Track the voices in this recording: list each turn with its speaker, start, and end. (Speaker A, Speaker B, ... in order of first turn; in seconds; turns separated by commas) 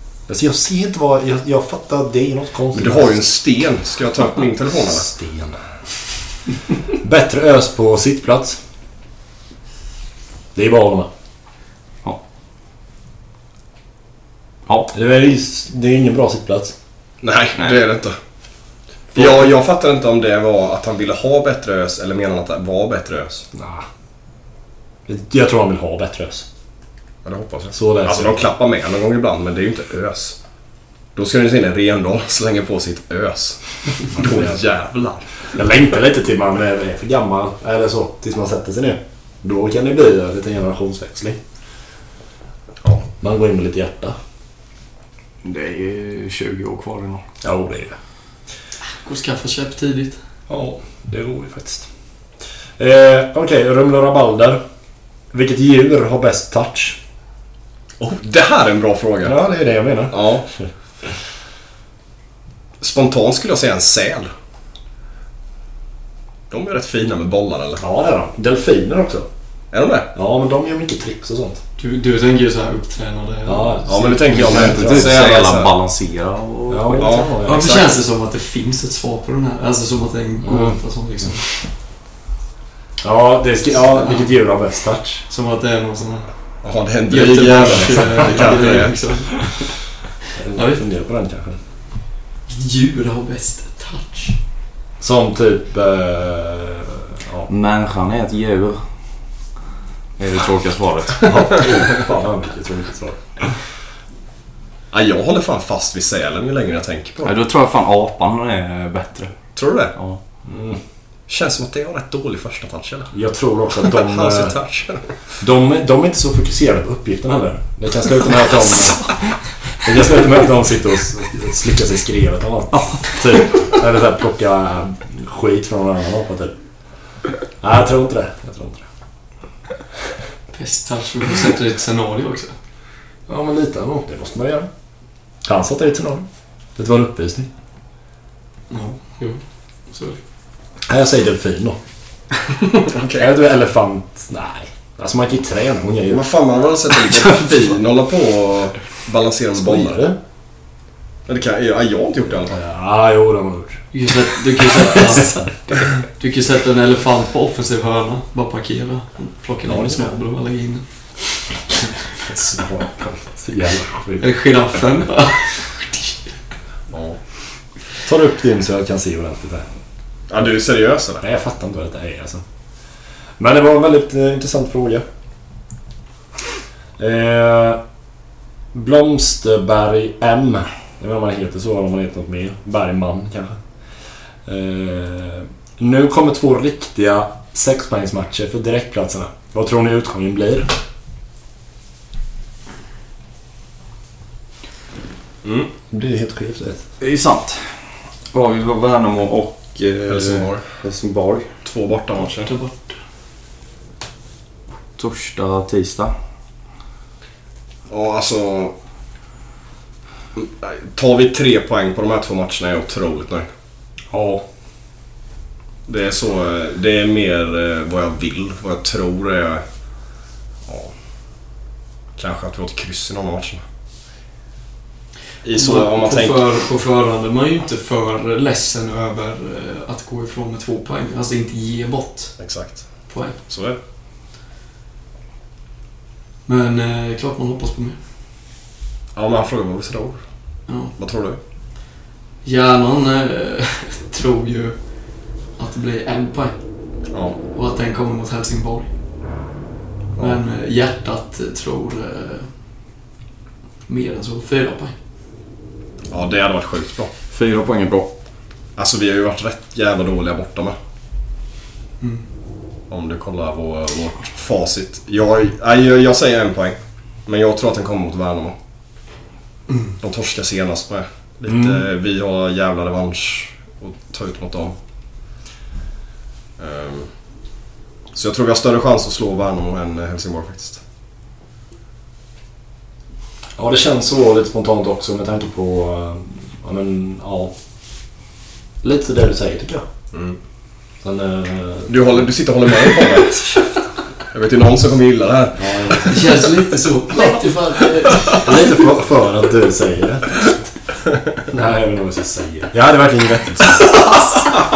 Speaker A: 0.3-3.2, Speaker B: 2.7-5.1, Speaker A: 4.8-5.7, Speaker A: 6.9-8.6, Speaker A: 10.5-11.1, Speaker C: 14.7-14.9, Speaker A: 14.9-16.7, Speaker B: 17.2-18.1, Speaker B: 19.1-23.4, Speaker A: 23.5-23.8, Speaker A: 25.1-26.4, Speaker B: 27.2-30.4, Speaker A: 27.7-28.4, Speaker B: 31.1-35.3, Speaker A: 34.1-34.6, Speaker A: 35.5-41.4, Speaker A: 43.2-44.1, Speaker C: 45.4-47.2, Speaker A: 47.4-48.0, Speaker D: 49.0-50.2, Speaker A: 50.5-51.9, Speaker A: 52.8-54.6, Speaker A: 55.3-57.0, Speaker B: 58.0-59.4, Speaker A: 59.2-60.7, Speaker B: 60.1-60.4, Speaker B: 62.8-64.3, Speaker B: 66.5-67.8, Speaker A: 67.8-69.3, Speaker B: 69.7-70.1, Speaker A: 70.1-71.6, Speaker D: 71.8-74.6, Speaker A: 73.5-75.2, Speaker B: 73.8-75.7, Speaker C: 74.4-77.2, Speaker A: 76.7-77.7, Speaker B: 77.0-77.9, Speaker D: 77.4-81.5, Speaker A: 80.4-80.8, Speaker A: 83.0-85.2, Speaker D: 83.8-84.3, Speaker D: 85.3-86.3, Speaker B: 86.6-89.0, Speaker D: 87.1-89.7, Speaker A: 87.7-88.8, Speaker A: 90.3-91.6, Speaker D: 90.5-90.8, Speaker D: 92.5-94.4, Speaker A: 95.0-97.5, Speaker C: 97.5-98.8, Speaker C: 100.2-101.7, Speaker A: 101.2-103.6, Speaker B: 104.9-107.3, Speaker C: 107.2-109.3, Speaker B: 109.5-109.9, Speaker C: 109.9-110.2, Speaker A: 110.4-110.8, Speaker B: 111.3-113.1, Speaker A: 113.1-114.5, Speaker B: 113.8-115.0, Speaker A: 115.4-119.2, Speaker A: 119.8-126.5, Speaker A: 127.6-128.8, Speaker D: 130.5-132.5, Speaker A: 133.3-134.7, Speaker A: 135.4-137.5, Speaker D: 138.7-140.2, Speaker A: 140.9-141.8, Speaker B: 142.8-143.3, Speaker A: 143.2-146.2, Speaker B: 146.1-150.0, Speaker A: 149.5-150.2, Speaker B: 151.3-152.6, Speaker A: 152.5-153.8, Speaker D: 153.9-160.8, Speaker A: 154.8-155.2, Speaker A: 159.7-160.1, Speaker A: 162.1-164.3, Speaker D: 164.2-166.2, Speaker B: 166.9-167.2, Speaker A: 168.1-169.7, Speaker B: 170.3-171.2, Speaker A: 171.2-172.4, Speaker A: 173.4-175.0, Speaker A: 177.0-177.8, Speaker A: 178.7-183.6, Speaker A: 184.4-190.8, Speaker B: 195.4-195.7, Speaker A: 195.9-196.8, Speaker C: 197.0-197.7, Speaker C: 198.3-201.5, Speaker B: 200.1-200.6, Speaker B: 201.6-202.5, Speaker D: 202.2-202.9, Speaker C: 205.0-206.1, Speaker B: 207.9-208.7, Speaker B: 210.3-213.5, Speaker A: 214.1-214.4, Speaker B: 215.9-219.6, Speaker B: 220.7-220.9, Speaker B: 222.2-223.6, Speaker B: 225.4-226.4, Speaker D: 225.5-232.4, Speaker B: 232.4-233.8, Speaker D: 233.1-233.4, Speaker D: 236.4-238.0, Speaker B: 239.1-240.2, Speaker D: 240.7-240.9, Speaker B: 241.0-241.4, Speaker D: 242.4-244.8, Speaker D: 245.6-246.6, Speaker B: 247.1-247.4, Speaker D: 247.5-248.9, Speaker D: 250.2-252.5, Speaker D: 253.9-254.9, Speaker B: 256.1-257.1, Speaker C: 257.3-258.1, Speaker B: 258.8-260.8, Speaker B: 262.9-268.6, Speaker B: 270.0-274.7, Speaker A: 271.5-271.8, Speaker B: 276.6-277.1, Speaker B: 278.1-280.8, Speaker A: 283.6-287.5, Speaker A: 288.8-289.9, Speaker A: 291.0-292.2, Speaker B: 291.9-293.5, Speaker B: 294.3-296.4, Speaker A: 295.6-296.1, Speaker D: 296.1-298.5, Speaker A: 298.4-300.5, Speaker A: 301.5-304.3